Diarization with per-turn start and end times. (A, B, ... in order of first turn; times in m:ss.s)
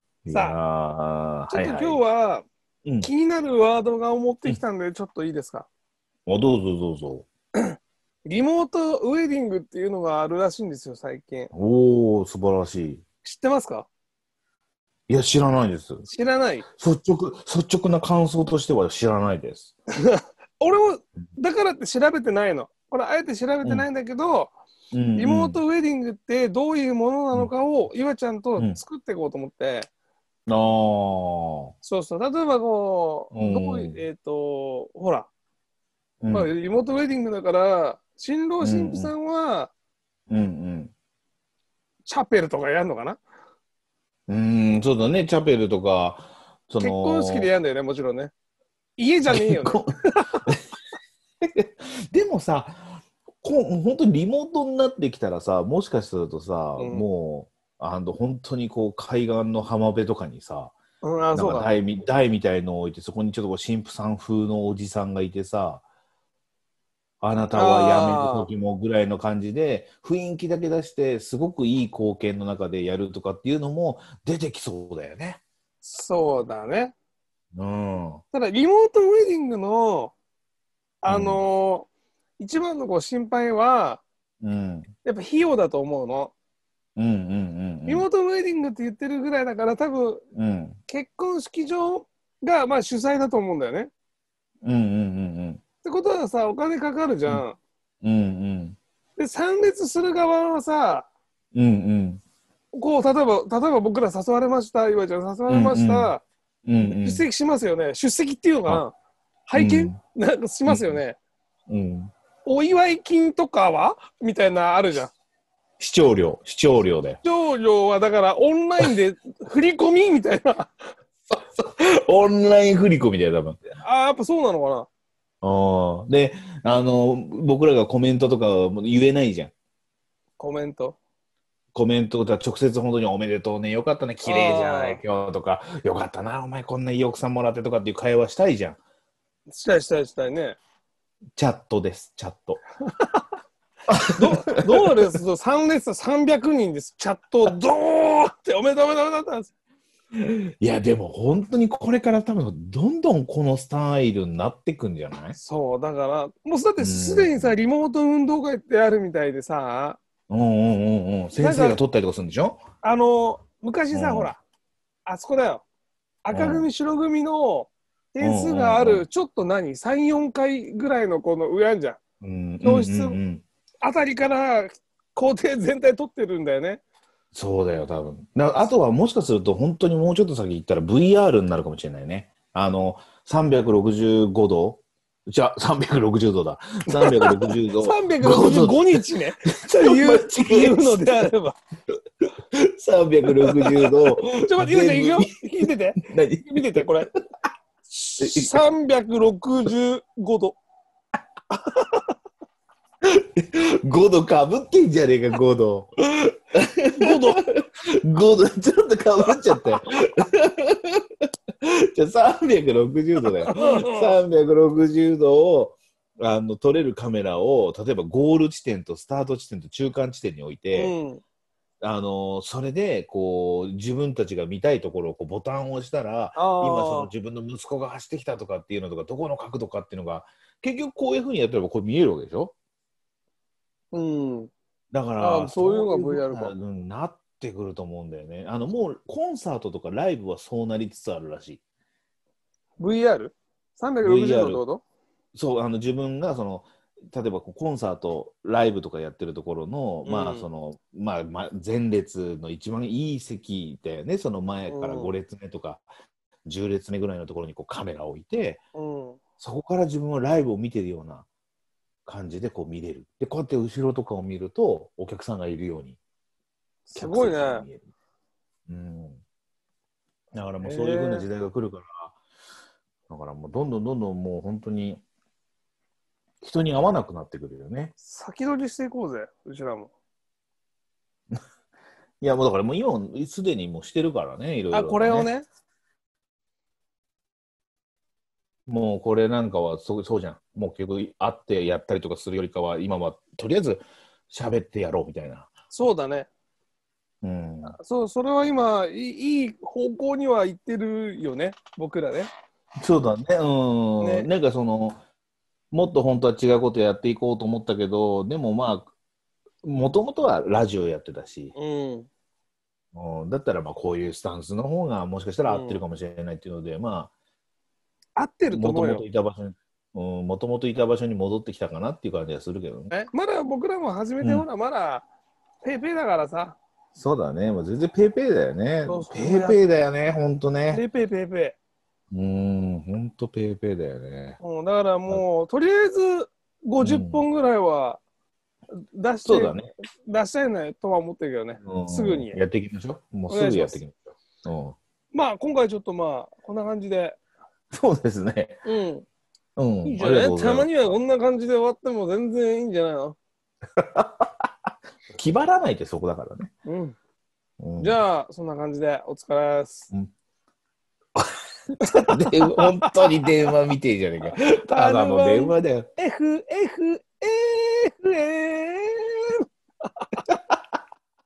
0:00.2-0:02.0 A
0:00.3-0:00.6 B
0:01.5-0:02.4 B
0:03.0-0:05.7 B
0:06.2-0:07.3 A
0:07.6-0:11.5 B
0:11.5-0:13.0 A
0:13.2-0:13.9 B
0:15.1-0:16.0 A
0:16.0-0:16.6 B
0:16.7-0:19.7 A
0:20.0-0:24.5 B
0:24.9-0:25.6 A
0:25.2-0:29.9 B
0:30.5-0:31.7 A
0:31.8-0:35.3 B
0:33.3-0:34.0 A
0:36.2-0:36.5 A
0:36.3-0:39.7 B
0:38.6-0:39.1 A
0:40.3-0:40.9 A
0:42.0-0:43.2 B
0:44.3-0:47.5 A
0:46.8-0:48.3 B
0:49.0-0:50.4 B
0:49.3-0:49.9 A
0:51.4-1:00.8 A
0:56.8-0:57.0 B
1:01.0-1:01.7 B
1:01.3-1:05.8 A
1:07.2-1:15.4 A
1:07.5-1:08.5 B
1:15.8-1:16.9 B
1:17.5-1:18.2 A
1:18.3-1:20.1 B
1:21.0-1:21.9 B
1:21.1-1:21.4 A
1:22.4-1:24.0 B
1:24.4-1:24.9 A
1:25.0-1:26.3 B
1:27.0-1:28.0 A
1:27.8-1:30.2 B
1:30.3-1:30.8 A
1:30.9-1:33.9 B
1:34.6-1:35.6 A
1:35.8-1:37.6 B
1:38.0-1:38.8 A
1:39.2-1:41.1 B
1:41.5-1:42.2 A
1:42.7-1:46.2 B
1:45.5-1:46.1 A
1:46.6-1:47.2 A
1:46.8-1:48.9 B
1:49.5-1:51.2 B
1:49.5-1:50.0 A
1:50.6-1:51.0 A
1:51.7-1:52.1 A
1:52.4-1:55.1 B
1:55.8-1:57.2 A
1:57.2-2:00.7 B
2:01.3-2:03.6 A
2:03.8-2:04.9 B
2:05.4-2:09.5 A
2:10.4-2:11.0 B
2:11.7-2:18.8 A
2:14.2-2:15.0 B
2:19.5-2:20.6 B
2:21.4-2:22.6 A
2:22.9-2:23.2 B
2:23.9-2:24.9 A
2:24.2-2:29.5 B
2:30.1-2:35.4 A
2:35.4-2:40.0 B
2:36.8-2:37.5 A
2:40.3-2:42.6 A
2:41.3-2:41.8 B
2:42.8-2:44.4 B
2:43.9-2:44.3 A
2:45.0-2:45.6 B
2:46.2-2:52.0 B
2:46.3-2:46.7 A
2:48.2-2:49.0 A
2:52.2-2:53.4 A
2:52.6-2:53.2 B
2:53.8-2:56.8 B
2:57.3-3:09.0 A
3:06.9-3:11.6 B
3:09.6-3:11.3 A
3:12.5-3:15.3 A
3:13.4-3:17.1 B
3:16.0-3:16.8 A
3:17.9-3:20.6 B
3:18.2-3:18.6 A
3:23.0-3:31.0 A
3:27.0-3:27.4 B
3:31.6-3:40.9 A
3:33.5-3:34.2 B
3:40.7-3:41.2 B
3:41.8-3:52.5 A
3:46.4-3:47.1 B
3:53.9-3:54.5 B
3:54.9-4:01.6 A
3:55.2-3:56.5 B
4:02.8-4:04.8 B
4:04.0-4:04.6 A
4:05.3-4:15.9 A
4:10.0-4:10.5 B
4:14.7-4:15.1 B
4:16.4-4:18.6 A
4:18.7-4:19.2 B
4:19.4-4:21.3 A
4:22.0-4:26.0 A
4:26.9-4:27.6 B
4:26.9-4:27.8 A
4:28.7-4:29.2 A
4:30.3-4:32.1 A
4:30.6-4:31.3 B
4:33.1-4:35.0 A
4:36.4-4:37.9 A
4:38.0-4:39.9 B
4:42.2-4:45.3 A
4:44.7-4:45.4 B
4:48.7-4:55.5 A
4:55.7-4:56.3 B
4:57.2-4:57.8 A
4:57.7-5:02.3 B
5:02.8-5:05.0 A
5:04.0-5:04.3 B
5:05.7-5:08.9 A
5:09.6-5:11.5 A
5:11.5-5:12.1 B
5:12.9-5:17.1 A
5:15.4-5:15.8 B
5:18.2-5:19.0 B
5:18.5-5:22.9 A
5:22.9-5:25.0 B
5:24.2-5:24.4 A
5:25.6-5:26.6 B
5:26.9-5:30.8 A
5:28.8-5:29.6 B
5:30.7-5:31.6 B
5:32.1-5:34.4 A
5:34.4-5:38.0 B
5:36.8-5:37.2 A
5:38.9-5:42.4 B
5:39.2-5:39.7 A
5:41.6-5:44.8 A
5:43.3-5:43.8 B
5:45.1-5:47.2 B
5:47.7-5:48.6 A
5:48.6-5:49.0 B
5:49.6-5:50.7 A
5:49.8-5:53.2 B
5:53.8-5:54.5 A
5:55.1-5:56.5 A
5:56.6-5:57.0 B
5:57.6-5:58.0 A
5:57.8-5:59.9 B
6:01.2-6:05.9 A
6:01.8-6:03.1 B
6:04.3-6:09.4 B